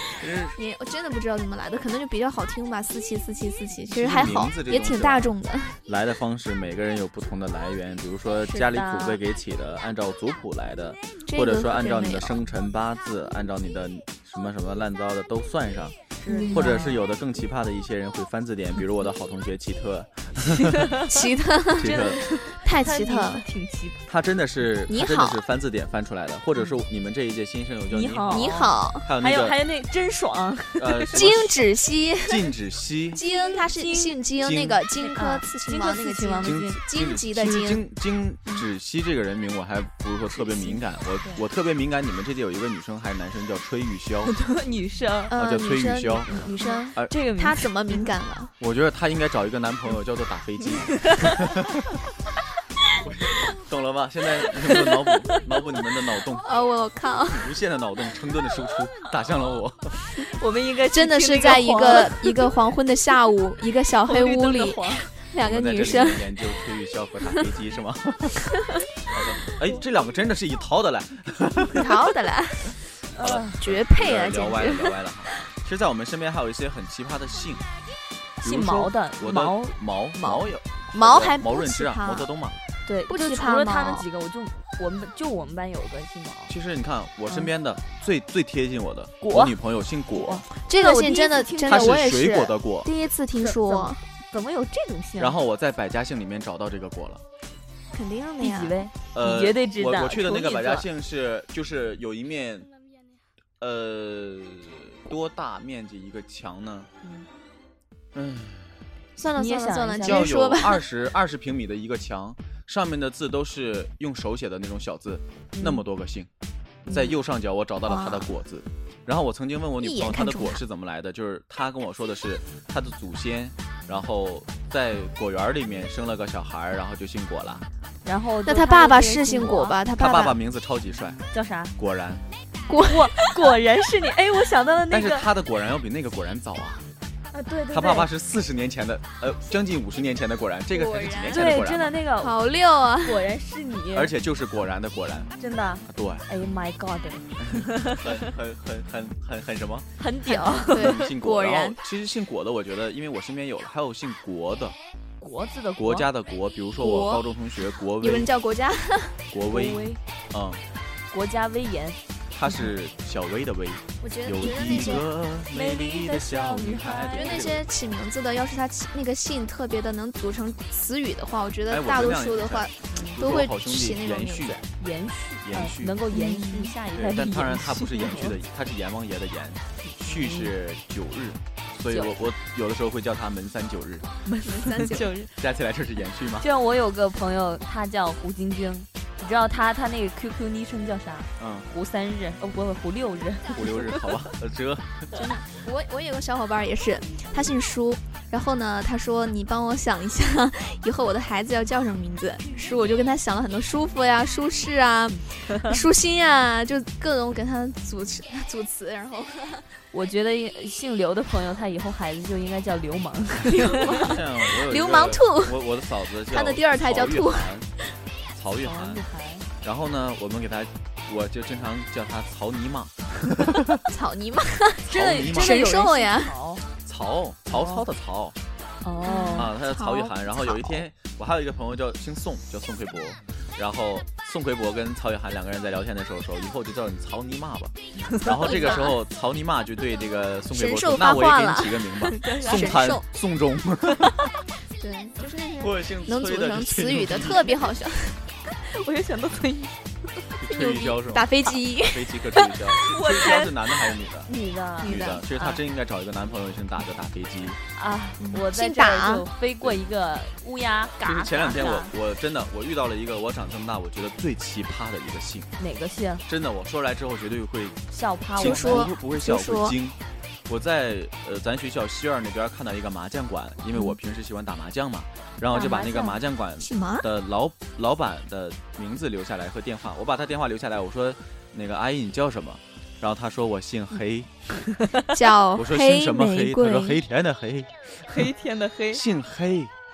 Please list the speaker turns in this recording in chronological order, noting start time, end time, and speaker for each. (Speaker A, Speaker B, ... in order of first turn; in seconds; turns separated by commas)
Speaker A: 0.2-0.6, Speaker B: 0.5-5.8, Speaker A: 3.9-5.3, Speaker A: 5.8-15.9, Speaker C: 8.6-9.2, Speaker B: 11.2-12.4, Speaker C: 16.1-17.0, Speaker B: 16.3-16.7, Speaker A: 16.5-20.8, Speaker B: 21.1-23.4, Speaker A: 21.8-22.3, Speaker C: 21.8-24.1, Speaker A: 24.1-29.6, Speaker B: 24.9-25.4, Speaker C: 27.9-31.2, Speaker B: 28.3-29.1, Speaker A: 30.8-31.6, Speaker B: 31.1-32.5, Speaker A: 32.2-33.2, Speaker B: 33.1-37.9, Speaker C: 33.3-34.2, Speaker A: 34.4-34.8, Speaker C: 35.0-36.8, Speaker A: 36.4-44.3, Speaker C: 44.2-45.3, Speaker B: 45.3-48.5, Speaker A: 45.4-46.3, Speaker C: 46.2-48.1, Speaker A: 48.6-51.6, Speaker C: 50.9-51.2, Speaker A: 53.0-56.5, Speaker C: 54.7-55.4, Speaker B: 56.4-57.5, Speaker A: 57.2-60.1, Speaker C: 60.1-62.5, Speaker B: 60.9-66.7, Speaker C: 64.1-65.1, Speaker A: 65.4-68.5, Speaker A: 69.1-72.0, Speaker B: 71.7-72.8, Speaker C: 73.1-73.6, Speaker A: 73.2-77.6, Speaker B: 73.6-75.0, Speaker C: 78.4-79.8, Speaker A: 78.4-82.6, Speaker B: 80.2-82.3, Speaker C: 82.8-86.5, Speaker B: 83.1-84.1, Speaker A: 86.5-90.4, Speaker C: 89.2-89.6, Speaker C: 90.1-92.0, Speaker B: 90.5-94.0, Speaker A: 91.7-92.9, Speaker C: 93.3-95.3, Speaker A: 95.2-97.2, Speaker B: 97.9-98.8, Speaker C: 98.4-100.9, Speaker A: 99.1-102.7, Speaker A: 103.6-106.9, Speaker A: 108.1-108.8, Speaker B: 109.2-110.8, Speaker C: 109.3-110.3, Speaker A: 110.0-116.3, Speaker C: 115.5-115.8, Speaker C: 116.8-117.2, Speaker A: 116.9-127.6, Speaker B: 117.8-118.3, Speaker B: 119.8-120.6, Speaker C: 128.0-129.8, Speaker B: 128.4-130.4, Speaker A: 130.0-131.2, Speaker C: 131.3-131.7, Speaker A: 131.8-132.2, Speaker B: 132.7-133.3, Speaker C: 132.8-135.3, Speaker A: 134.9-136.9, Speaker C: 137.3-138.1, Speaker A: 137.7-142.0, Speaker B: 140.7-141.5, Speaker C: 141.3-142.3, Speaker B: 142.2-143.2, Speaker C: 143.0-144.1, Speaker A: 143.9-145.3, Speaker C: 145.4-148.0, Speaker A: 145.9-146.3, Speaker A: 147.4-149.9, Speaker C: 150.0-151.0, Speaker B: 150.3-151.8, Speaker A: 150.7-154.8, Speaker C: 155.2-156.1, Speaker A: 155.8-158.3, Speaker B: 156.8-157.2, Speaker B: 158.0-159.2, Speaker A: 159.3-160.6, Speaker C: 159.5-160.0, Speaker C: 161.1-162.7, Speaker A: 162.3-167.6, Speaker B: 164.0-165.1, Speaker C: 164.4-167.5, Speaker B: 167.2-174.6, Speaker A: 171.7-174.6, Speaker C: 172.9-173.2, Speaker C: 174.8-178.3, Speaker A: 175.4-176.0, Speaker B: 176.1-176.7, Speaker A: 176.9-184.1, Speaker C: 179.8-180.5, Speaker C: 184.2-185.3, Speaker B: 184.4-185.1, Speaker A: 185.4-186.5, Speaker C: 186.4-194.0, Speaker A: 191.4-191.7, Speaker A: 193.5-195.1, Speaker B: 195.2-209.7, Speaker C: 209.9-214.2, Speaker B: 213.5-215.6, Speaker A: 213.8-217.7, Speaker B: 216.2-217.9, Speaker A: 218.3-219.0, Speaker C: 218.6-219.5, Speaker A: 219.6-223.6, Speaker B: 223.9-226.3, Speaker C: 224.8-226.6, Speaker A: 224.9-225.6, Speaker A: 226.8-228.3, Speaker C: 227.5-227.8, Speaker C: 228.8-229.5, Speaker B: 229.0-230.8, Speaker A: 229.3-244.1, Speaker C: 238.2-238.8, Speaker B: 238.4-238.9, Speaker B: 240.5-243.1, Speaker C: 242.1-242.8, Speaker B: 244.8-248.2, Speaker A: 245.6-247.5, Speaker C: 248.5-250.2, Speaker A: 250.4-251.3, Speaker B: 250.4-252.6, Speaker A: 251.8-254.3, Speaker C: 252.8-253.5, Speaker C: 254.2-255.6, Speaker B: 254.8-255.2, Speaker A: 254.8-257.6, Speaker C: 257.7-261.9, Speaker B: 258.2-259.3, Speaker A: 261.0-265.5, Speaker C: 265.6-266.2, Speaker A: 266.2-267.8, Speaker C: 267.9-268.8, Speaker A: 268.3-284.3, Speaker B: 268.4-269.8, Speaker C: 275.5-276.2, Speaker B: 276.6-277.1, Speaker B: 285.1-287.0, Speaker A: 285.5-288.3, Speaker C: 287.9-289.0, Speaker A: 288.9-289.7